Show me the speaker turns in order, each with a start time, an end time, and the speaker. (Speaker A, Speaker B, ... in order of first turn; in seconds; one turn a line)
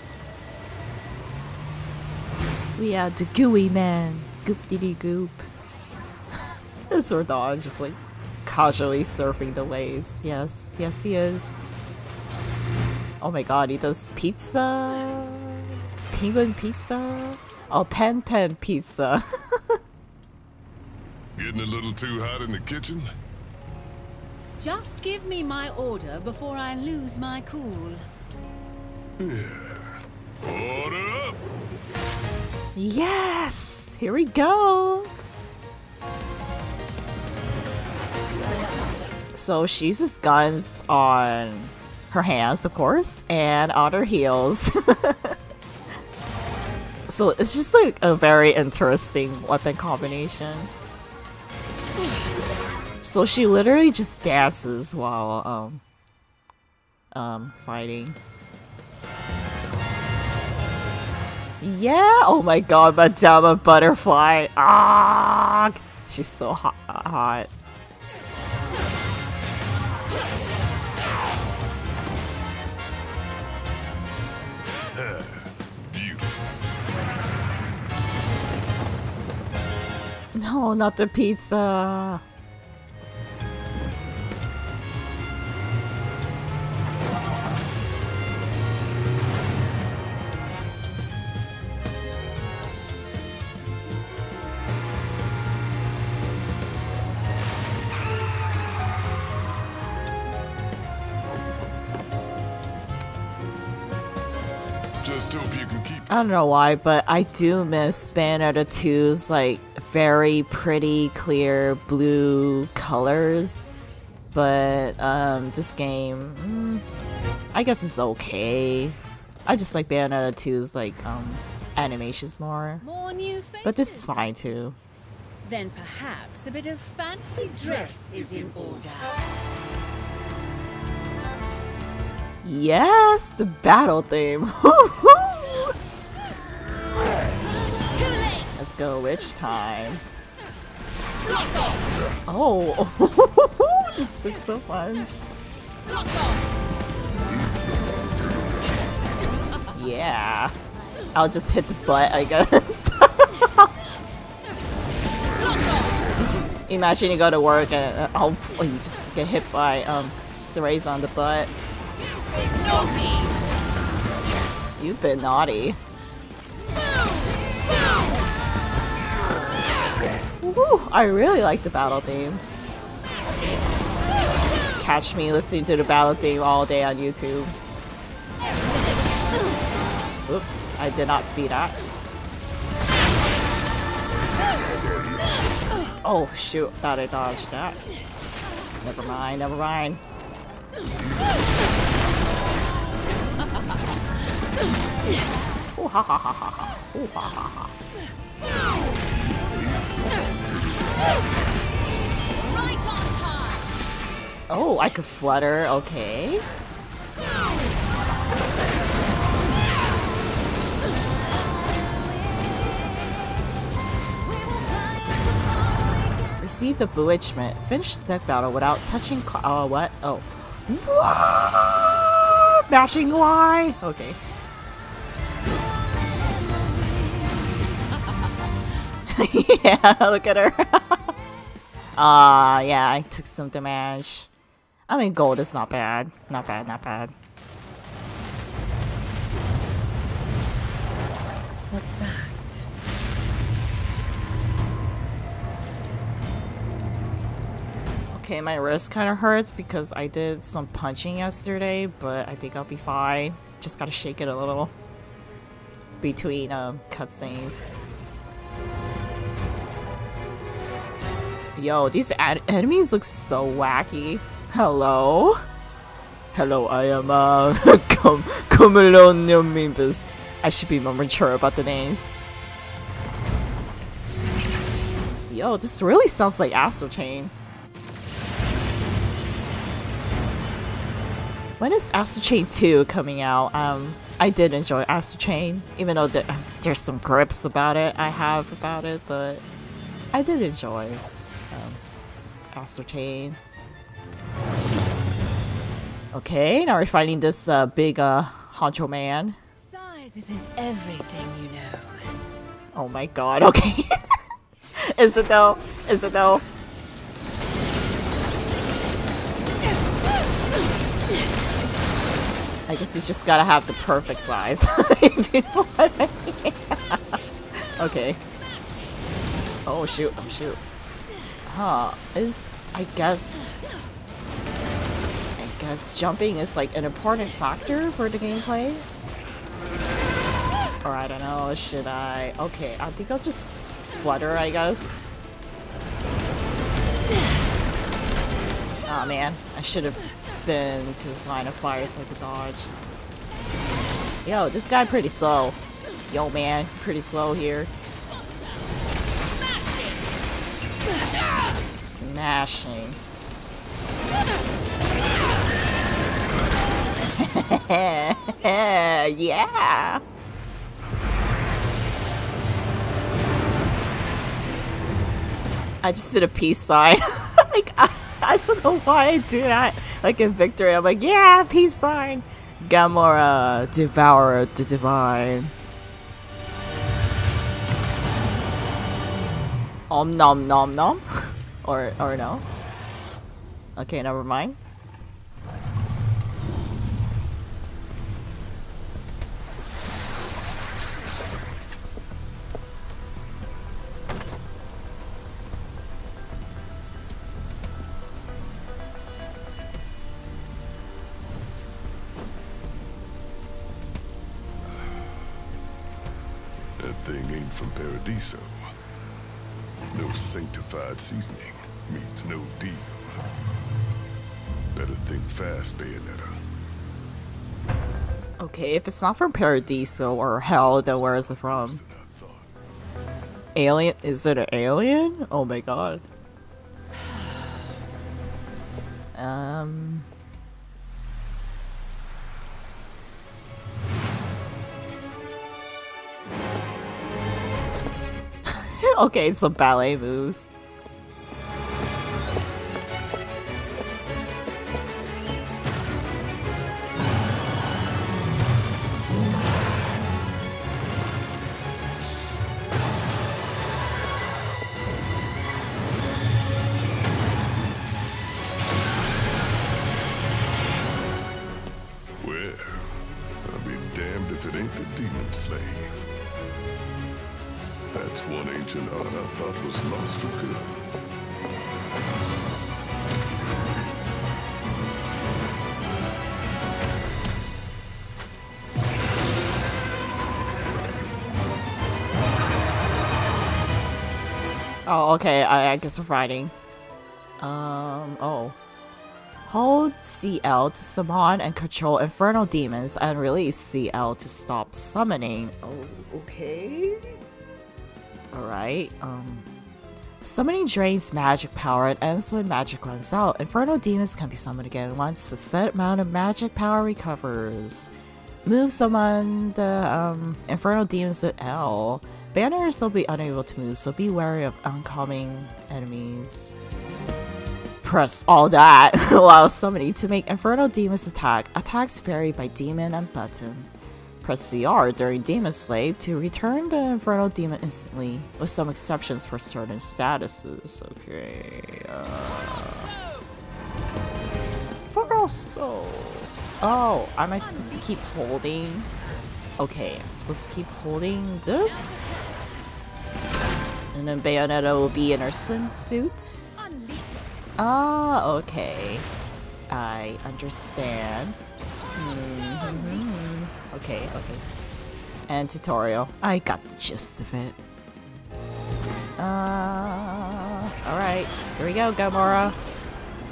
Speaker A: 2.8-5.5
Speaker A: 6.9-11.6
Speaker A: 13.2-19.8
Speaker B: 21.4-23.1
Speaker C: 24.6-28.0
Speaker B: 29.2-31.4
Speaker A: 32.8-35.1
Speaker A: 39.3-45.4
Speaker A: 47.1-50.7
Speaker A: 53.0-55.8
Speaker A: 57.1-58.2
Speaker A: 61.6-67.5
Speaker B: 74.7-76.5
Speaker A: 80.3-82.2
Speaker B: 105.0-106.1
Speaker A: 106.1-113.7
Speaker A: 114.3-116.8
Speaker A: 117.5-122.8
Speaker C: 122.8-124.5
Speaker A: 123.6-124.8
Speaker C: 125.4-129.2
Speaker A: 132.4-135.7
Speaker A: 138.6-140.0
Speaker A: 142.3-145.1
Speaker A: 149.7-150.5
Speaker A: 151.1-153.7
Speaker A: 156.5-161.5
Speaker C: 162.5-163.2
Speaker A: 164.8-165.8
Speaker A: 170.4-172.4
Speaker A: 174.7-177.5
Speaker A: 180.2-181.8
Speaker A: 186.0-187.8
Speaker A: 188.8-190.0
Speaker A: 195.8-197.7
Speaker A: 204.5-206.4
Speaker A: 216.4-224.2
Speaker A: 229.1-231.0
Speaker A: 231.9-234.3
Speaker A: 234.9-237.1
Speaker C: 241.7-242.7
Speaker A: 248.1-254.7
Speaker A: 256.0-257.6
Speaker A: 261.6-265.4
Speaker A: 266.3-272.1
Speaker A: 275.3-277.3
Speaker A: 281.6-289.4
Speaker A: 290.1-291.8
Speaker A: 292.5-293.4
Speaker A: 296.1-299.4
Speaker C: 299.6-302.1
Speaker A: 302.7-303.9
Speaker A: 304.8-306.4
Speaker A: 312.7-317.0
Speaker A: 317.6-318.2
Speaker A: 319.6-320.6
Speaker A: 321.5-323.5
Speaker A: 325.4-328.8
Speaker A: 330.8-335.0
Speaker A: 338.9-342.7
Speaker A: 344.2-345.6
Speaker A: 346.1-347.7
Speaker A: 351.7-353.0
Speaker A: 357.1-360.0
Speaker A: 365.8-375.5
Speaker A: 379.9-382.4
Speaker A: 383.8-384.6
Speaker B: 404.6-405.0
Speaker B: 406.8-408.6
Speaker B: 409.9-413.2
Speaker B: 414.7-416.4
Speaker A: 418.4-421.8
Speaker B: 420.4-422.5
Speaker A: 423.5-426.0
Speaker A: 429.1-430.1
Speaker A: 438.4-440.4
Speaker B: 462.2-462.9
Speaker B: 463.4-466.1
Speaker B: 467.9-470.8
Speaker A: 484.9-486.5
Speaker A: 487.4-488.6
Speaker A: 489.5-497.2
Speaker A: 498.3-499.5
Speaker A: 500.2-507.9
Speaker A: 508.4-516.5
Speaker A: 517.8-523.7
Speaker A: 524.2-532.9
Speaker A: 534.9-538.9
Speaker C: 537.4-538.0
Speaker A: 539.6-542.2
Speaker C: 541.6-542.2
Speaker A: 543.9-546.4
Speaker C: 546.6-547.4
Speaker A: 547.6-549.0
Speaker A: 549.7-551.4
Speaker A: 551.9-554.4
Speaker C: 552.6-553.1
Speaker A: 555.3-557.6
Speaker A: 559.2-562.6
Speaker C: 562.1-562.9